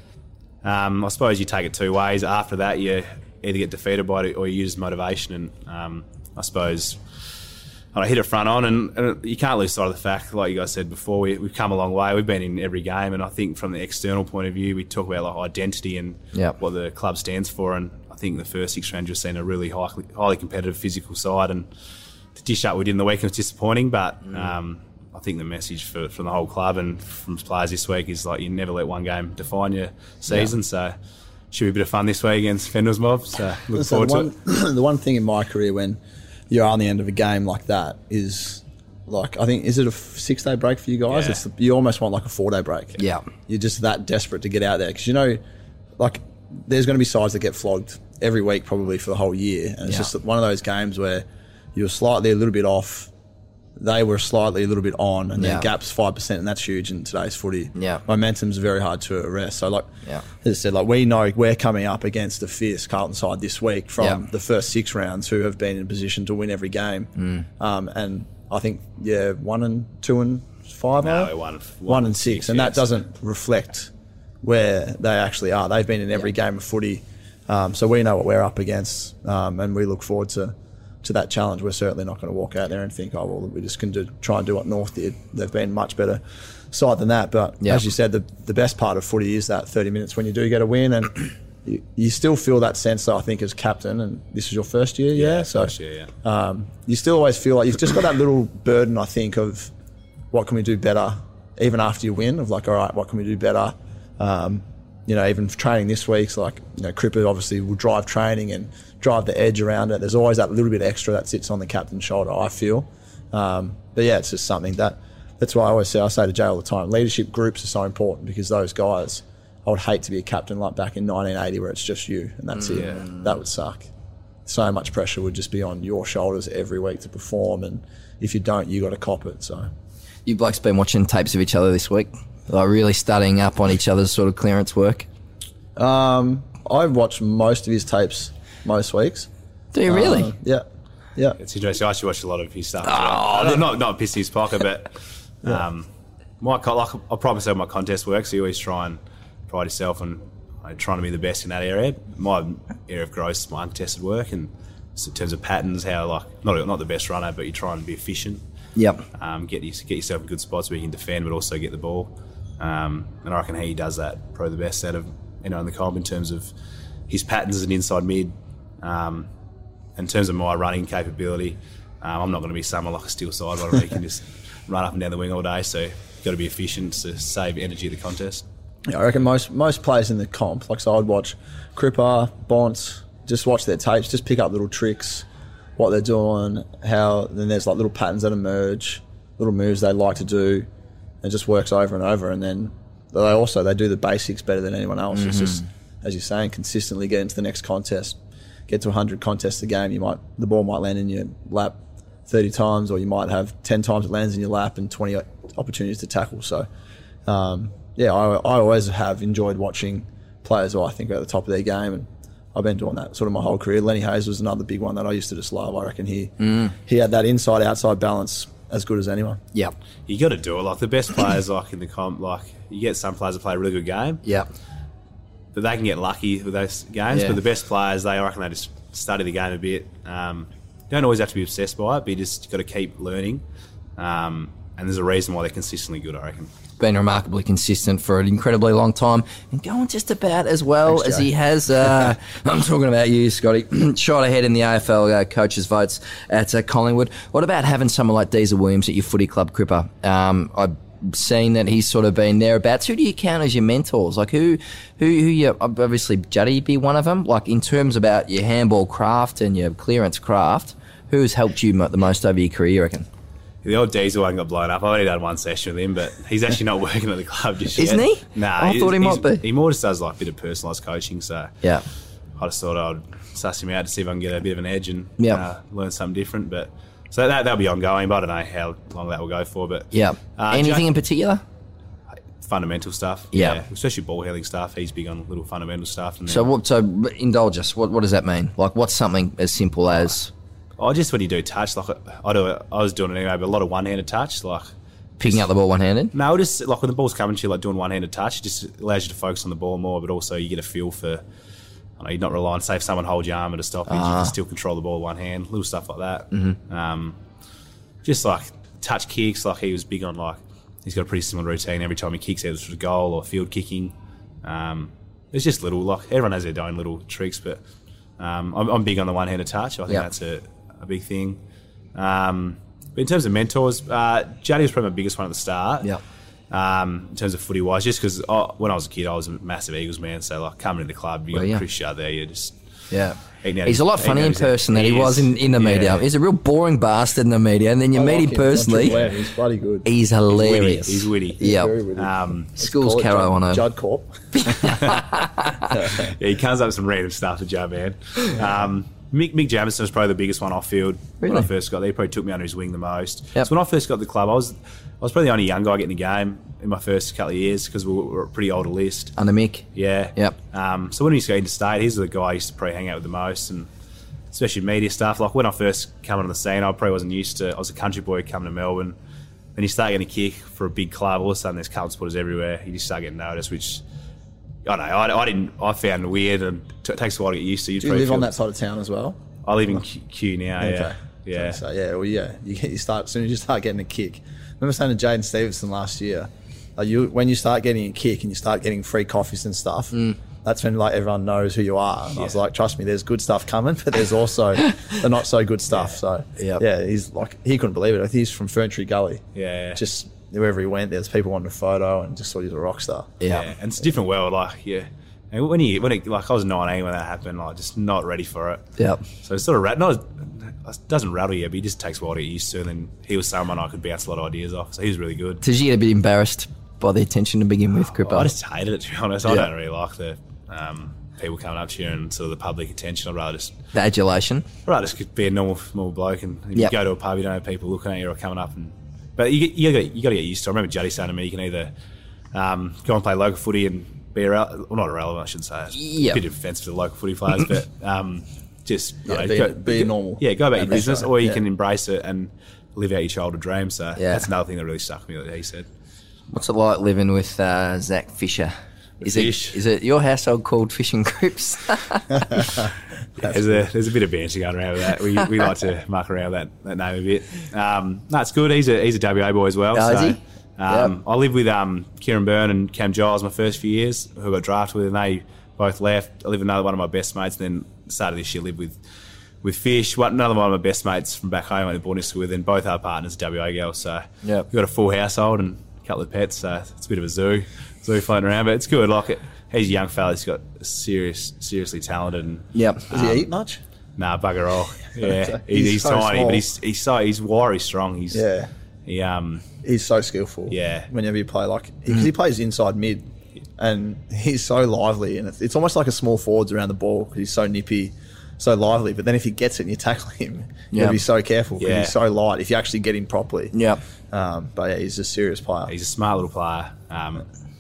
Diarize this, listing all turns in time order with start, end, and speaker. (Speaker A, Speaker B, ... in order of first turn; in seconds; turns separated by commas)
Speaker A: 0.6-21.7, Speaker A: 22.4-31.0, Speaker A: 31.5-34.3, Speaker B: 33.7-36.0, Speaker B: 36.5-45.4, Speaker A: 41.1-41.4, Speaker C: 43.0-43.2, Speaker B: 46.0-53.1, Speaker B: 53.8-59.9, Speaker C: 55.4-55.7, Speaker C: 57.8-58.0, Speaker B: 60.4-71.3, Speaker C: 67.2-67.5, Speaker A: 71.0-72.9, Speaker B: 71.9-73.9, Speaker B: 74.4-99.7, Speaker A: 95.2-96.1, Speaker B: 100.3-123.9, Speaker C: 122.8-123.2, Speaker B: 124.5-129.7, Speaker C: 130.3-135.1, Speaker B: 135.8-139.3, Speaker C: 139.7-140.3, Speaker B: 139.9-140.7, Speaker A: 141.4-145.9, Speaker C: 142.9-143.6, Speaker A: 146.4-158.4, Speaker C: 158.8-159.1, Speaker A: 159.1-166.5, Speaker A: 167.1-169.3, Speaker A: 170.0-178.4, Speaker B: 178.9-185.3, Speaker B: 185.8-190.7, Speaker B: 191.2-198.2, Speaker C: 195.2-195.5, Speaker B: 198.7-201.8, Speaker B: 202.3-206.7, Speaker B: 207.3-219.4, Speaker C: 216.4-216.7, Speaker A: 220.1-224.2, Speaker A: 225.5-233.4, Speaker A: 234.0-236.5, Speaker C: 236.8-263.1, Speaker A: 263.6-271.6, Speaker C: 267.8-269.4, Speaker A: 272.4-280.9, Speaker C: 275.2-275.4, Speaker C: 279.9-281.4, Speaker A: 282.4-286.5, Speaker C: 283.3-283.6, Speaker C: 286.3-290.3, Speaker A: 290.8-294.7, Speaker C: 295.2-296.1, Speaker A: 296.1-301.2, Speaker A: 302.0-307.2, Speaker C: 303.9-304.3, Speaker C: 306.3-306.6, Speaker A: 308.0-317.6, Speaker A: 318.2-321.4, Speaker A: 321.9-325.9, Speaker A: 326.5-332.6, Speaker C: 331.3-331.6, Speaker C: 332.9-339.0, Speaker A: 333.4-336.1, Speaker B: 337.9-339.9, Speaker C: 339.9-341.7, Speaker A: 340.3-341.4, Speaker B: 341.4-344.9, Speaker A: 341.9-342.5, Speaker C: 342.6-343.6, Speaker C: 344.3-345.8, Speaker B: 345.7-346.1, Speaker A: 345.9-359.1, Speaker C: 351.2-351.5, Speaker C: 359.2-360.4, Speaker A: 359.7-363.7, Speaker A: 364.3-369.0, Speaker A: 369.6-373.8, Speaker A: 374.6-378.3, Speaker B: 377.8-379.8, Speaker A: 379.4-381.6, Speaker B: 380.6-403.1, Speaker A: 392.1-392.4, Speaker A: 399.4-399.8, Speaker C: 403.2-403.5, Speaker A: 403.3-408.7, Speaker C: 408.8-409.0, Speaker A: 409.2-415.4, Speaker C: 415.4-418.3, Speaker A: 418.0-423.6, Speaker C: 423.7-424.5, Speaker A: 424.6-431.7, Speaker A: 432.3-445.7, Speaker C: 435.7-436.2, Speaker B: 439.1-441.4, Speaker C: 444.0-444.3, Speaker C: 446.3-452.5, Speaker A: 449.1-449.6, Speaker A: 453.2-468.8, Speaker C: 459.7-460.9, Speaker A: 469.4-483.3, Speaker C: 482.5-482.9, Speaker B: 482.9-483.6, Speaker A: 484.0-488.2, Speaker B: 485.0-486.4, Speaker B: 488.1-488.5, Speaker A: 488.9-489.5, Speaker B: 489.6-493.0, Speaker A: 490.5-490.9, Speaker B: 493.6-503.6, Speaker C: 500.7-501.0, Speaker A: 501.6-501.9, Speaker C: 503.5-503.8, Speaker B: 504.1-505.7, Speaker A: 505.7-507.3